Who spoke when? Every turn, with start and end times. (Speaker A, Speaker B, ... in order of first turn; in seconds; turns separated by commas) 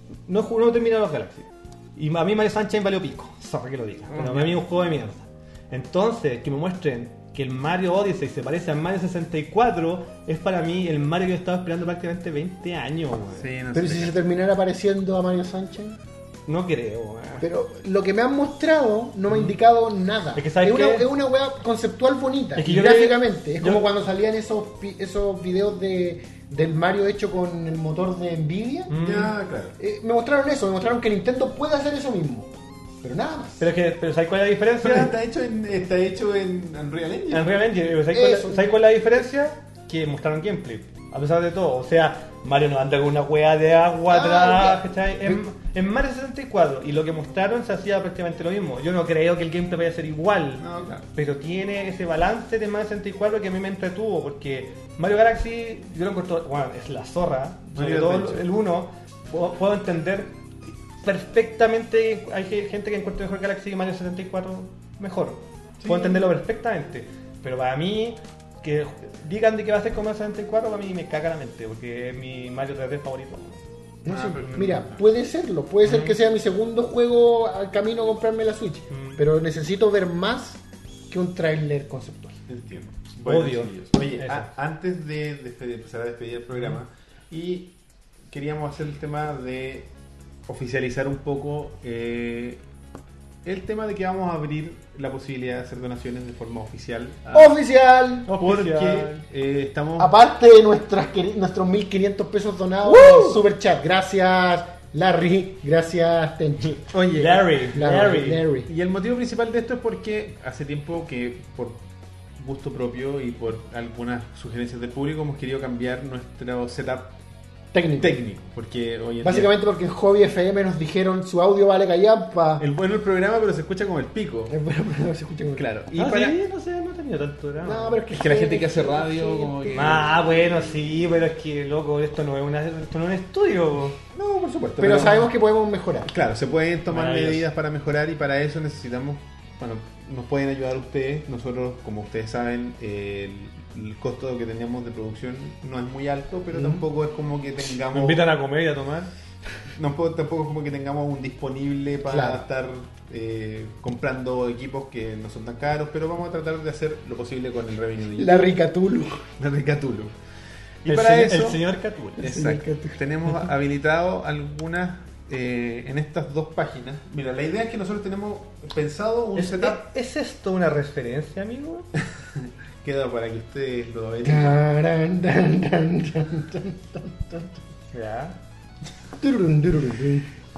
Speaker A: 0.3-13.5, Speaker B: 4.1-4.5, Speaker B: 13.4-14.2, Speaker C: 13.7-16.0, Speaker A: 16.5-17.5, Speaker C: 17.4-29.0, Speaker A: 19.3-19.6, Speaker A: 20.4-21.1, Speaker A: 22.6-23.8, Speaker A: 28.9-29.3, Speaker B: 29.0-29.8, Speaker C: 29.8-32.5, Speaker C: 33.0-33.7, Speaker A: 33.6-35.2, Speaker B: 34.8-37.5, Speaker A: 37.3-60.4, Speaker C: 38.1-38.7, Speaker C: 44.1-45.4, Speaker B: 50.6-51.1, Speaker B: 57.7-58.5, Speaker A: 61.0-73.6, Speaker B: 65.8-66.3, Speaker C: 74.0-82.4, Speaker B: 74.1-75.0, Speaker A: 74.3-74.9, Speaker A: 75.8-76.2, Speaker A: 78.9-79.2, Speaker B: 82.5-87.7, Speaker A: 83.2-84.5, Speaker B: 88.3-89.9, Speaker B: 90.5-92.6, Speaker B: 93.5-97.5, Speaker C: 97.3-98.3, Speaker A: 98.3-99.2, Speaker B: 98.4-100.1, Speaker C: 100.0-106.8, Speaker A: 102.8-103.4, Speaker A: 106.6-108.5, Speaker B: 106.9-107.6, Speaker C: 107.7-108.7, Speaker B: 108.7-111.8, Speaker B: 112.4-117.1, Speaker C: 117.7-118.2, Speaker B: 118.0-119.5, Speaker C: 119.2-122.7, Speaker B: 122.6-124.6, Speaker C: 124.5-125.7, Speaker B: 125.5-126.4, Speaker A: 126.0-128.0, Speaker C: 127.6-130.2, Speaker B: 128.1-130.8, Speaker A: 129.7-134.0, Speaker B: 134.1-135.3, Speaker C: 134.8-136.1, Speaker B: 136.1-148.3, Speaker A: 136.9-137.5, Speaker C: 146.5-146.8, Speaker A: 147.9-149.1, Speaker B: 149.8-158.5, Speaker C: 152.1-152.4, Speaker C: 158.2-159.3, Speaker B: 159.4-160.1, Speaker B: 160.8-161.6, Speaker A: 160.9-162.3, Speaker B: 162.2-169.9, Speaker C: 162.2-163.0, Speaker A: 169.4-171.9, Speaker B: 172.3-174.6, Speaker C: 174.2-177.6, Speaker A: 177.9-178.4, Speaker C: 179.2-180.3